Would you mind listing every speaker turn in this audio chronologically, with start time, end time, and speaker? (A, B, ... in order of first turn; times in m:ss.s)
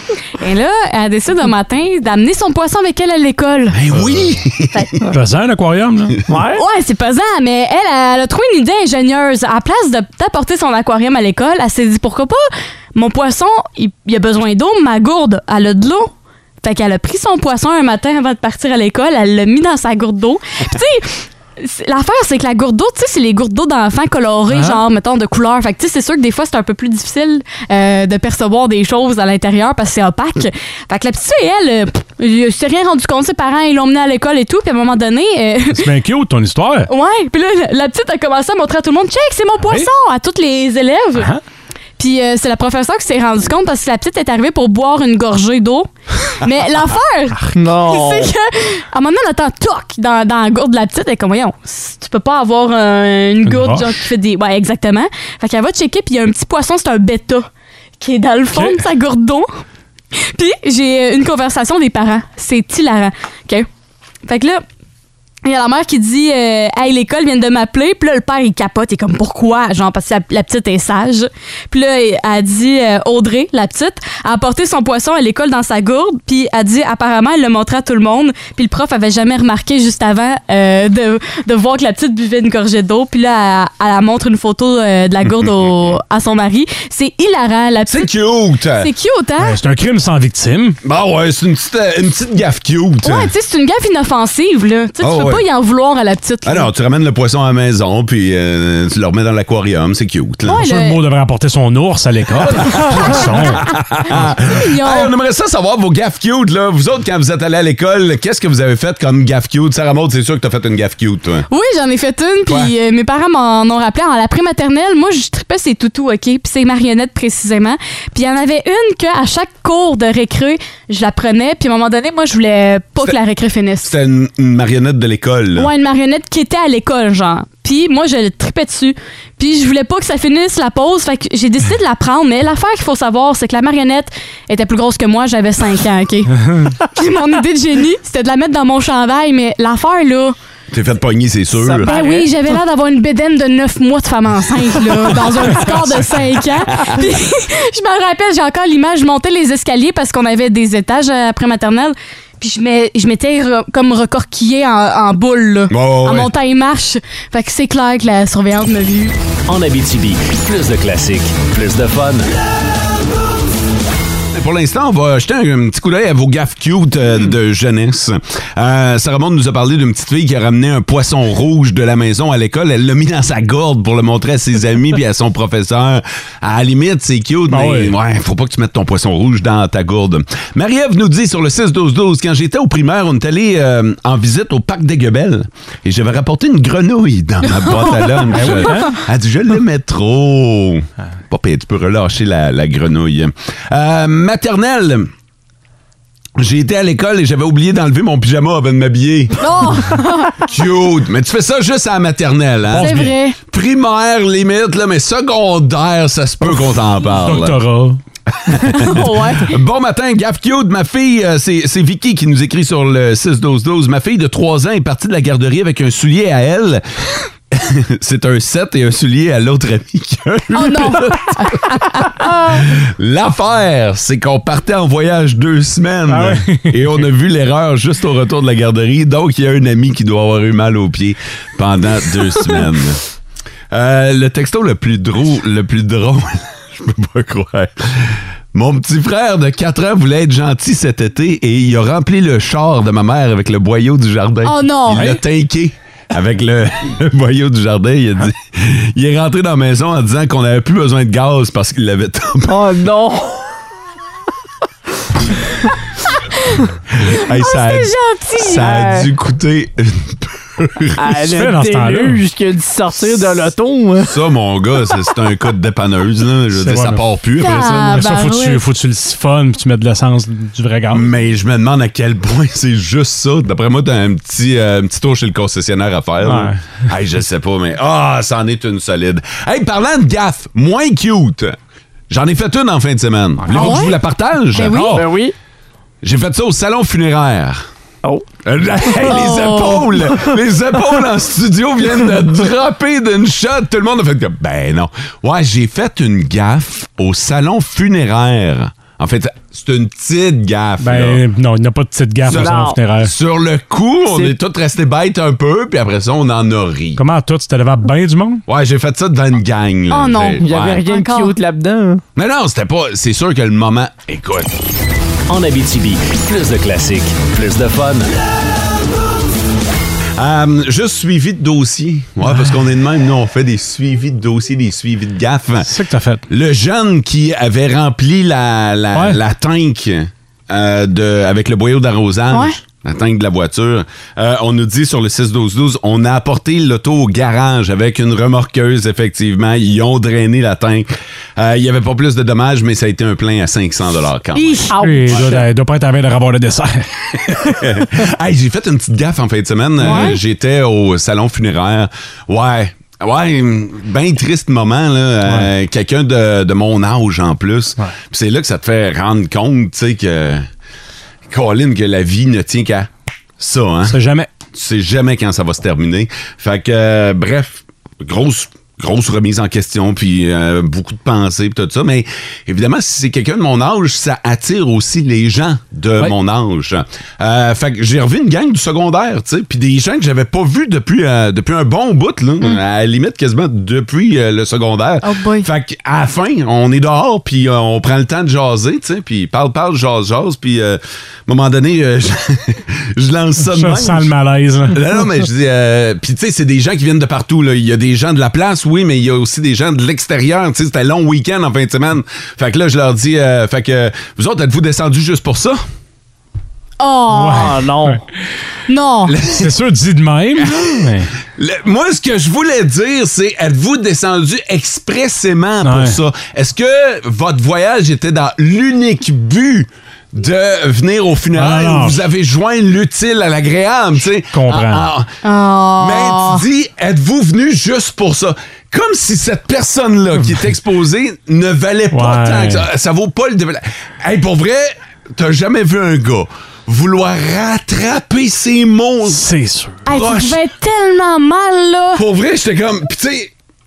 0:00.4-0:03.8 A
0:03.7-0:04.9 B
0:05.1-0:06.2 C
0:06.3-0:06.6 D
0:06.5-0:35.9 A
0:24.5-0:24.8 C
0:35.7-0:36.9 C
0:36.9-0:41.3 A
0:39.6-0:39.9 C
0:42.0-0:57.5 A
0:47.5-0:48.3 D
0:53.4-0:53.9 C
0:58.0-0:59.5 A
0:58.5-0:58.8 C
1:00.2-1:03.7 A
1:04.2-1:04.6 A
1:05.4-1:28.1 A
1:27.9-1:28.9 B
1:28.8-1:29.6 A
1:29.4-1:30.8 C
1:30.8-1:33.3 B
1:33.0-1:36.7 A
1:35.0-1:35.4 B
1:36.4-1:40.7 B
1:40.4-1:41.0 A
1:40.6-1:43.6 C
1:42.4-1:51.5 B
1:44.5-1:45.1 A
1:51.5-2:03.9 A
1:52.5-1:52.7 B
2:03.8-2:05.7 B
2:05.6-2:20.4 A
2:20.7-2:21.9 B
2:21.6-2:22.3 D
2:21.8-2:39.2 A
2:35.7-2:36.3 B
2:39.5-2:42.3 E
2:44.3-3:15.1 B
2:57.5-2:57.9 C
3:08.3-3:09.0 C
3:16.4-3:19.6 B
3:19.4-3:20.4 A
3:20.4-3:22.9 B
3:22.7-3:23.1 C
3:22.7-3:23.4 A
3:23.5-3:27.6 B
3:27.2-3:28.0 C
3:28.4-3:36.8 B
3:28.7-3:29.6 A
3:37.5-3:53.0 B
3:40.5-3:42.4 A
3:46.1-3:46.8 C
3:53.7-4:12.7 B
4:04.4-4:05.2 A
4:12.4-4:13.4 D
4:17.0-4:21.2 B
4:17.1-4:18.7 A
4:18.6-4:19.0 D
4:21.0-4:24.2 D
4:21.3-4:22.2 C
4:24.0-4:28.1 B
4:26.5-4:31.1 C
4:27.4-4:28.6 A
4:30.9-4:41.6 B
4:36.2-4:36.6 C
4:42.1-4:45.1 B
4:43.5-4:44.0 A
4:44.5-4:45.0 A
4:44.9-4:45.3 D
4:46.0-4:47.7 B
4:48.4-5:01.2 B
4:49.0-4:49.9 A
5:00.8-5:03.1 C
5:02.2-5:07.0 B
5:02.3-5:02.8 D
5:04.1-5:04.3 D
5:07.0-5:08.4 C
5:08.5-5:10.8 B
5:09.9-5:11.3 A
5:10.4-5:12.0 D
5:12.2-5:14.5 B
5:15.3-5:18.1 E
5:20.2-5:25.8 B
5:25.6-5:26.2 C
5:26.3-5:45.4 B
5:44.4-5:44.9 A
5:44.7-5:45.5 D
5:44.8-5:47.8 C
5:47.4-6:00.5 B
5:49.8-5:50.2 A
6:01.3-6:04.0 B
6:03.9-6:04.3 C
6:04.5-6:34.1 B
6:25.0-6:25.5 A
6:33.4-6:34.8 C
6:34.7-6:45.6 B
6:46.8-6:47.6 A
6:47.1-6:48.0 C
6:47.2-6:48.0 D
6:48.7-6:49.1 A
6:49.1-6:49.5 B
6:49.3-6:51.1 C
6:50.4-6:50.8 B
6:51.3-7:05.1 B
6:55.6-6:56.0 C
7:01.3-7:02.0 C
7:04.3-7:04.9 C
7:05.2-7:06.4 A
7:05.8-7:19.2 B
7:11.9-7:12.6 C
7:19.1-7:19.8 C
7:19.8-7:22.0 A
7:19.9-7:20.4 B
7:21.9-7:23.3 B